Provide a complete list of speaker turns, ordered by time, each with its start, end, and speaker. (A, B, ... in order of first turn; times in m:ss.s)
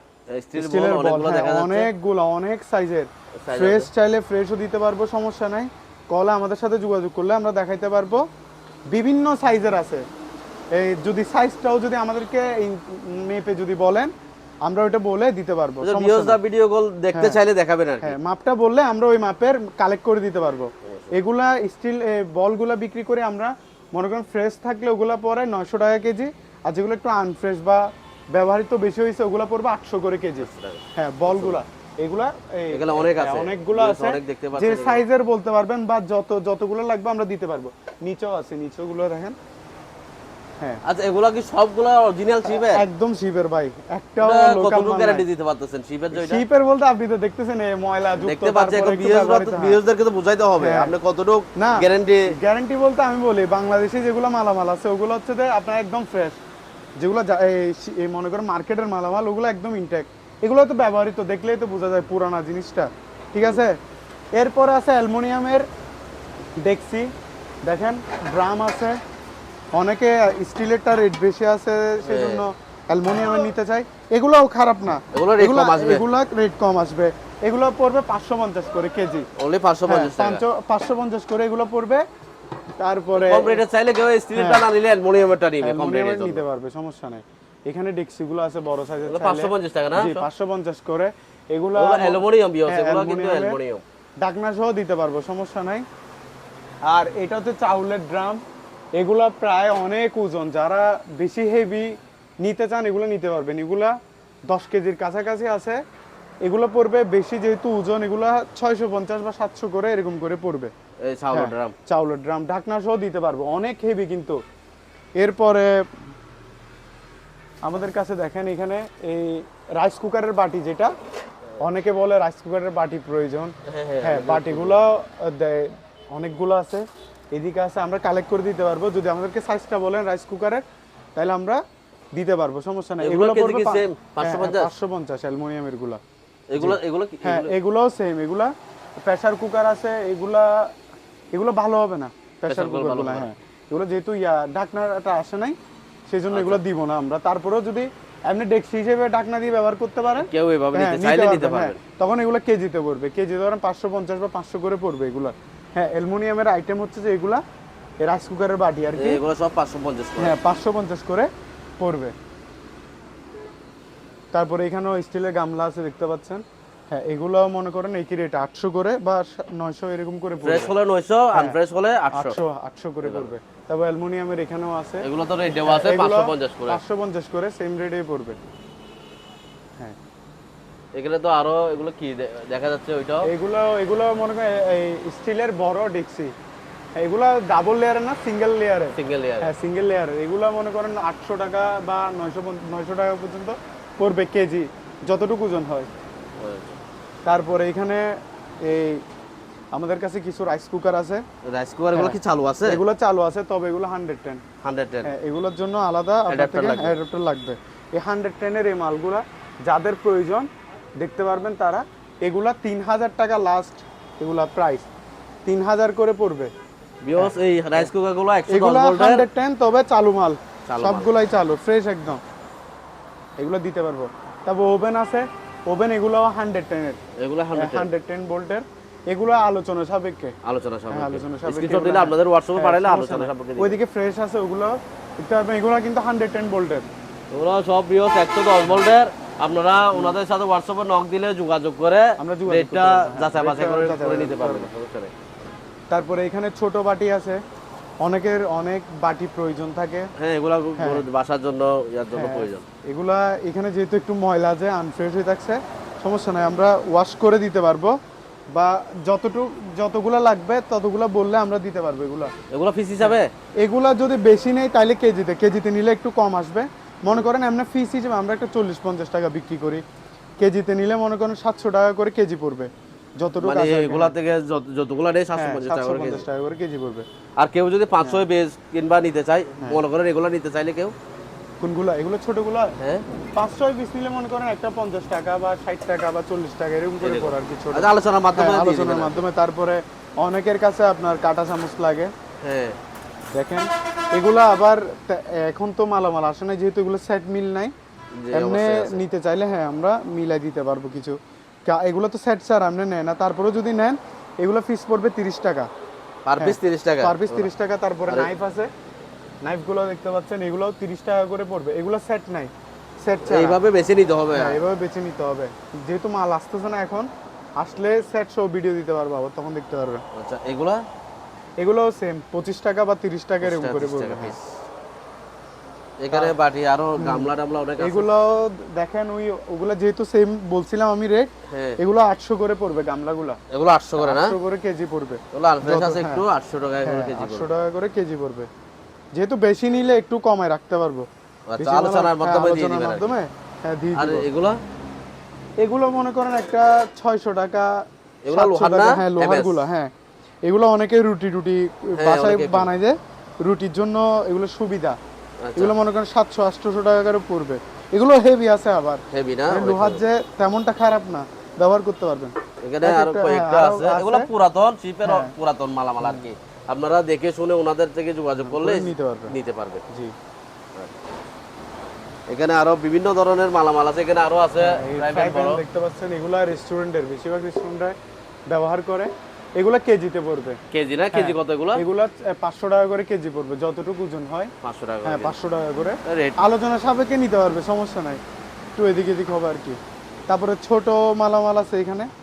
0:00.3-0:01.9 A
0:00.6-0:08.2 B
0:03.4-0:03.9 A
0:08.9-0:10.0 B
0:10.7-0:14.1 B
0:14.6-0:16.4 B
0:15.8-0:18.2 A
0:18.0-0:39.4 B
0:20.9-0:21.1 A
0:30.4-0:31.6 A
0:32.7-0:35.0 A
0:40.8-0:42.8 A
0:42.5-0:45.2 B
0:44.2-0:46.4 A
0:46.1-0:49.8 B
0:48.2-0:52.3 A
0:50.6-0:50.9 B
0:51.6-0:56.4 B
0:57.0-1:03.8 B
1:04.4-1:05.7 B
1:06.6-1:07.1 B
1:07.6-1:09.0 B
1:09.7-1:19.3 B
1:12.0-1:12.4 A
1:15.1-1:16.0 A
1:19.4-1:20.4 A
1:19.9-1:22.0 B
1:22.8-1:23.6 B
1:23.1-1:26.4 A
1:24.4-1:24.6 B
1:25.6-1:33.6 B
1:29.1-1:30.3 A
1:31.8-1:33.8 A
1:34.2-1:35.8 B
1:36.9-1:38.4 B
1:39.0-1:44.0 B
1:44.5-1:45.8 B
1:46.4-1:50.7 B
1:51.0-1:51.8 A
1:51.3-1:54.4 B
1:55.2-1:55.9 B
1:57.6-2:00.9 B
2:01.6-2:10.6 B
2:03.7-2:04.8 A
2:11.2-2:11.6 B
2:12.1-2:16.0 B
2:13.0-2:14.7 A
2:16.5-2:17.5 A
2:16.6-2:20.7 B
2:21.3-2:25.6 B
2:22.5-2:23.3 A
2:26.1-2:37.4 B
2:26.3-2:26.6 A
2:30.2-2:31.8 A
2:38.0-2:39.2 B
2:39.0-2:40.4 A
2:40.2-2:42.1 B
2:44.3-2:50.7 B
2:50.4-2:52.4 A
2:52.1-2:55.1 B
2:53.0-2:53.3 A
2:55.0-2:56.8 A
2:55.6-2:58.4 B
3:01.0-3:03.3 A
3:03.2-3:06.3 B
3:07.0-3:15.9 B
3:08.9-3:09.5 A
3:16.4-3:16.8 A
3:17.3-3:19.0 B
3:19.7-3:21.2 B
3:21.5-3:22.8 A
3:21.9-3:24.4 B
3:24.6-3:25.1 A
3:25.0-3:30.5 B
3:26.3-3:27.0 A
3:31.0-3:34.9 B
3:35.5-3:36.5 B
3:37.0-3:39.3 A
3:37.2-3:37.9 B
3:38.5-3:42.2 B
3:40.7-3:41.1 A
3:43.4-3:47.0 B
3:47.2-3:47.9 A
3:47.6-3:50.3 B
3:50.4-3:53.8 A
3:50.9-3:56.9 B
3:57.3-4:05.1 A
4:02.2-4:04.7 B
4:05.9-4:07.4 B
4:08.0-4:10.1 B
4:10.2-4:12.6 A
4:10.8-4:11.0 B
4:12.2-4:17.9 B
4:18.5-4:22.3 B
4:22.5-4:23.3 A
4:23.0-4:29.8 B
4:30.4-4:34.1 B
4:33.4-4:36.2 A
4:35.4-4:37.1 B
4:37.4-4:40.9 A
4:38.0-4:38.3 B
4:41.6-4:42.8 B
4:42.8-4:43.0 A
4:43.4-4:52.1 B
4:47.0-4:49.2 A
4:52.4-4:52.8 A
4:53.3-4:57.7 B
4:58.2-4:59.0 A
4:58.3-5:05.7 B
5:06.3-5:07.5 A
5:06.4-5:08.7 B
5:09.4-5:12.5 B
5:13.0-5:13.6 B
5:13.2-5:14.6 A
5:14.3-5:20.0 B
5:20.1-5:20.8 A
5:21.6-5:24.4 B
5:23.4-5:24.6 A
5:26.0-5:28.1 A
5:27.0-5:33.4 B
5:31.5-5:31.8 A
5:33.5-5:34.4 A
5:34.0-5:36.2 B
5:35.3-5:37.5 A
5:36.8-5:38.5 B
5:39.1-5:44.3 B
5:41.5-5:43.2 A
5:44.0-5:44.6 A
5:45.6-5:49.9 B
5:48.2-5:49.6 A
5:50.4-5:55.0 B
5:52.0-5:52.7 A
5:55.4-5:55.8 A
5:55.6-6:04.3 B
5:59.1-6:00.0 A
6:02.6-6:09.8 A
6:05.0-6:05.3 B
6:06.0-6:06.3 B
6:08.4-6:09.4 B
6:12.3-6:15.6 A
6:14.6-6:18.0 B
6:18.5-6:20.6 B
6:20.7-6:21.8 A
6:21.1-6:24.5 B
6:24.6-6:25.4 A
6:25.0-6:28.2 B
6:26.1-6:26.4 A
6:28.8-6:32.1 B